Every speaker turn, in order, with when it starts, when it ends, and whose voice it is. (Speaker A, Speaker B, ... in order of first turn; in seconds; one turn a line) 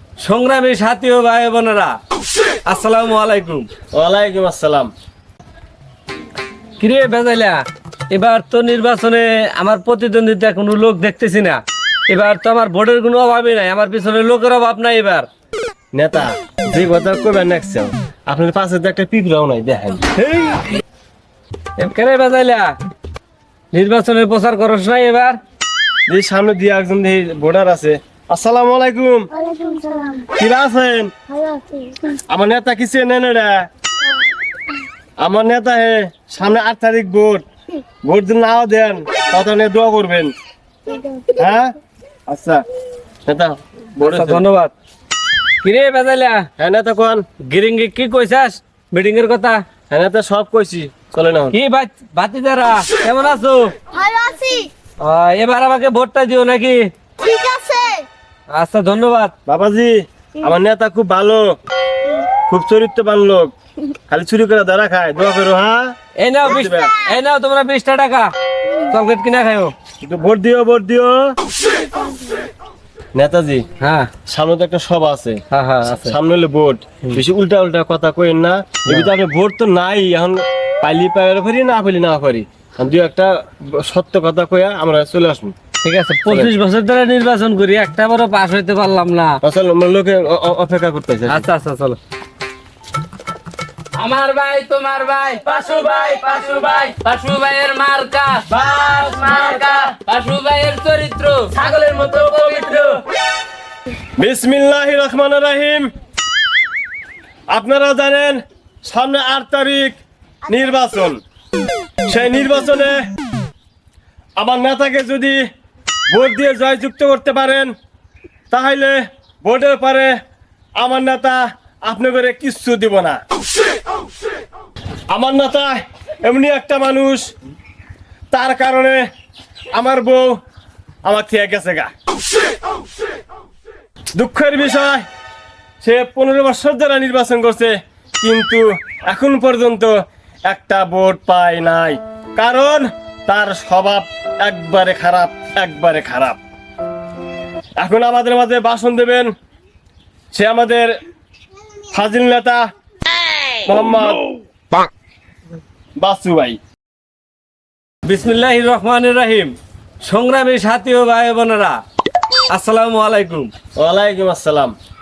Speaker A: 0.2-2.0
Speaker A: 2.7-3.7
Speaker B: 3.9-4.9
Speaker A: 6.8-15.3
Speaker B: 15.9-20.0
Speaker A: 20.2-20.6
Speaker A: 21.8-22.7
Speaker A: 23.7-25.4
Speaker B: 26.1-29.3
Speaker C: 29.4-30.3
Speaker B: 30.3-31.1
Speaker C: 31.4-32.1
Speaker B: 32.3-33.7
Speaker B: 35.2-37.4
Speaker B: 38.0-40.3
Speaker C: 41.0-41.3
Speaker B: 41.3-41.7
Speaker B: 42.3-42.6
Speaker B: 43.3-44.4
Speaker A: 44.0-44.7
Speaker A: 45.6-46.5
Speaker B: 46.6-47.2
Speaker A: 47.5-49.6
Speaker B: 49.9-51.5
Speaker A: 51.5-53.7
Speaker C: 54.0-54.7
Speaker A: 55.0-56.8
Speaker C: 57.2-58.0
Speaker A: 58.5-59.3
Speaker B: 59.5-61.5
Speaker B: 62.5-63.5
Speaker B: 64.1-66.9
Speaker A: 66.2-68.3
Speaker A: 68.8-69.7
Speaker B: 70.0-71.4
Speaker B: 73.2-73.6
Speaker A: 73.8-74.1
Speaker B: 74.3-85.5
Speaker A: 75.5-76.1
Speaker A: 85.8-89.4
Speaker B: 89.4-91.5
Speaker A: 91.3-92.0
Speaker D: 94.0-103.0
Speaker B: 104.2-105.9
Speaker B: 107.5-111.2
Speaker B: 112.1-113.0
Speaker B: 114.4-115.4
Speaker B: 116.1-117.7
Speaker B: 118.5-120.1
Speaker B: 120.8-123.2
Speaker B: 125.1-127.3
Speaker B: 128.3-129.1
Speaker B: 129.7-130.4
Speaker B: 131.1-131.9
Speaker B: 134.2-135.1
Speaker B: 135.8-139.9
Speaker B: 140.5-146.4
Speaker B: 147.8-149.3
Speaker B: 150.3-150.9
Speaker B: 151.9-152.6
Speaker B: 153.7-154.2
Speaker B: 156.0-156.6
Speaker A: 158.1-159.5
Speaker A: 160.0-161.8
Speaker A: 162.5-163.5
Speaker B: 163.8-164.8